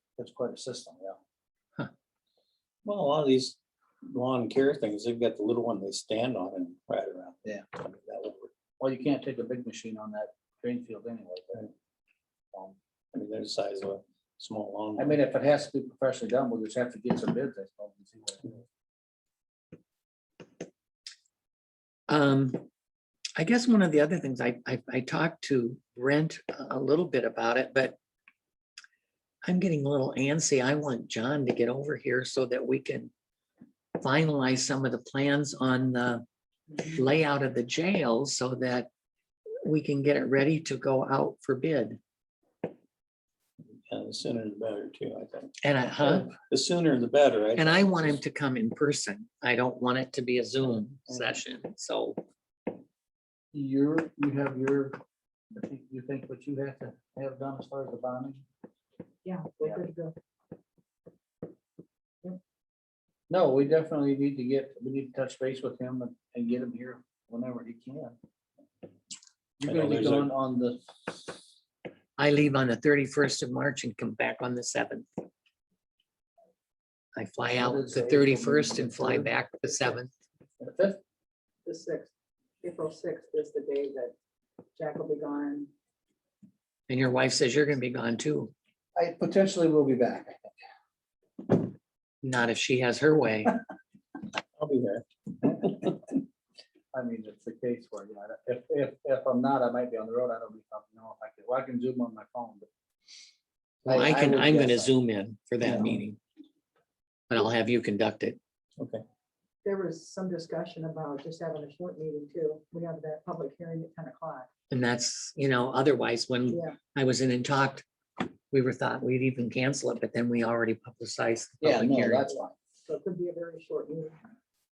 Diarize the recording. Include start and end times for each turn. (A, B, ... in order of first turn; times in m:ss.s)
0:00.2-0:01.2 A
0:02.8-0:08.5 B
0:08.8-0:11.7 A
0:13.1-0:15.2 B
0:15.0-0:18.6 A
0:22.1-0:22.7 C
0:23.4-0:28.0 C
0:29.4-0:33.1 C
0:34.0-0:36.2 C
0:36.9-0:38.9 C
0:39.6-0:42.0 C
0:43.9-0:45.5 B
0:45.6-0:46.3 C
0:46.0-0:48.2 B
0:47.6-0:52.2 C
0:53.5-0:55.0 A
0:55.5-0:58.4 A
0:59.2-1:00.1 D
1:03.3-1:08.2 A
1:09.6-1:11.4 A
1:09.7-1:10.3 B
1:12.2-1:15.0 C
1:17.2-1:20.1 C
1:17.6-1:19.3 A
1:20.6-1:21.0 A
1:21.6-1:22.1 D
1:22.6-1:24.1 D
1:24.8-1:25.7 D
1:26.9-1:28.5 C
1:29.0-1:30.5 A
1:32.2-1:33.6 C
1:34.6-1:35.0 B
1:35.4-1:36.0 A
1:36.9-1:42.7 A
1:43.8-1:44.9 A
1:43.8-1:46.2 C
1:45.6-1:46.0 A
1:47.3-1:48.4 C
1:48.8-1:49.0 B
1:49.6-1:54.5 D
1:54.7-2:02.4 C
1:56.5-1:56.8 D
2:01.6-2:02.5 A
2:02.9-2:04.2 D